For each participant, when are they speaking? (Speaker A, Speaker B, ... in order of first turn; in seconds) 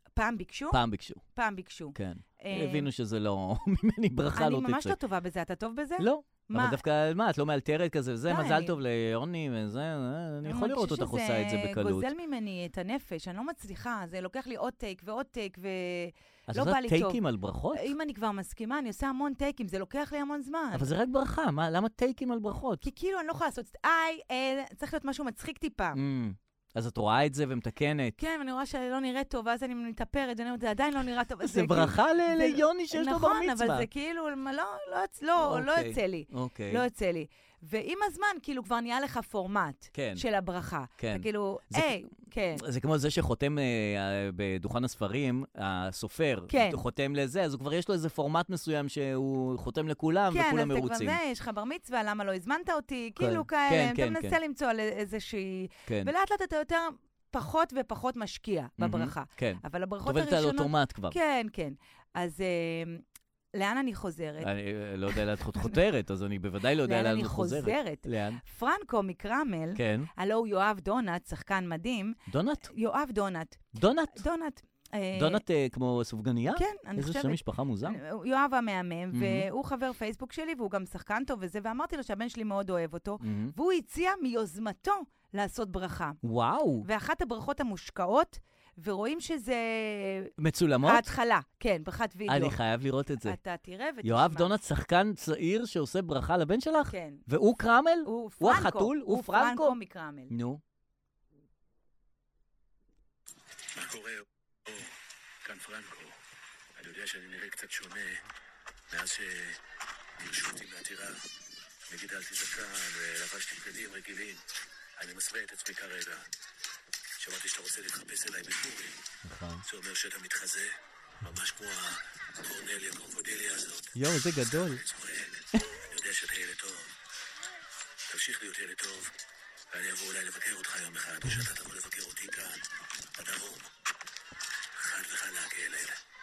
Speaker A: 0.1-0.8, 1.4-2.9, 4.4-6.8, 8.3-8.7, 10.4-17.2, 17.7-20.9, 22.8-26.0, 28.2-42.6, 46.5-46.8, 50.3-63.0, 63.6-64.5, 66.8-72.2, 72.7-73.6, 74.1-75.4, 76.5-86.2, 86.8-90.3, 90.8-92.6, 93.2-94.5, 96.9-97.2, 98.0-100.3
Speaker B: 0.7-1.2, 1.9-5.0, 6.0-12.1, 16.5-17.9, 20.8-22.9, 26.0-28.2, 31.4-33.9, 35.4-36.8, 39.9-40.2, 41.0-42.0, 42.6-51.2, 53.2-54.4, 55.9-56.1, 58.8-61.2, 64.4-68.4, 69.8-70.1, 72.3-72.7, 73.8-74.2, 75.2-78.0, 79.1-79.5, 83.2-83.5, 86.2-86.9, 90.4-91.0, 92.3-93.4, 94.0-99.8, 100.3-100.6, 119.2-119.7, 124.0-124.8
Speaker C: 103.8-106.2, 106.8-108.3, 108.9-109.6, 110.2-111.3, 111.9-114.5, 115.0-116.3, 117.2-119.1, 119.7-124.0, 124.5-126.9, 128.1-129.2, 129.7-133.7, 134.7-136.0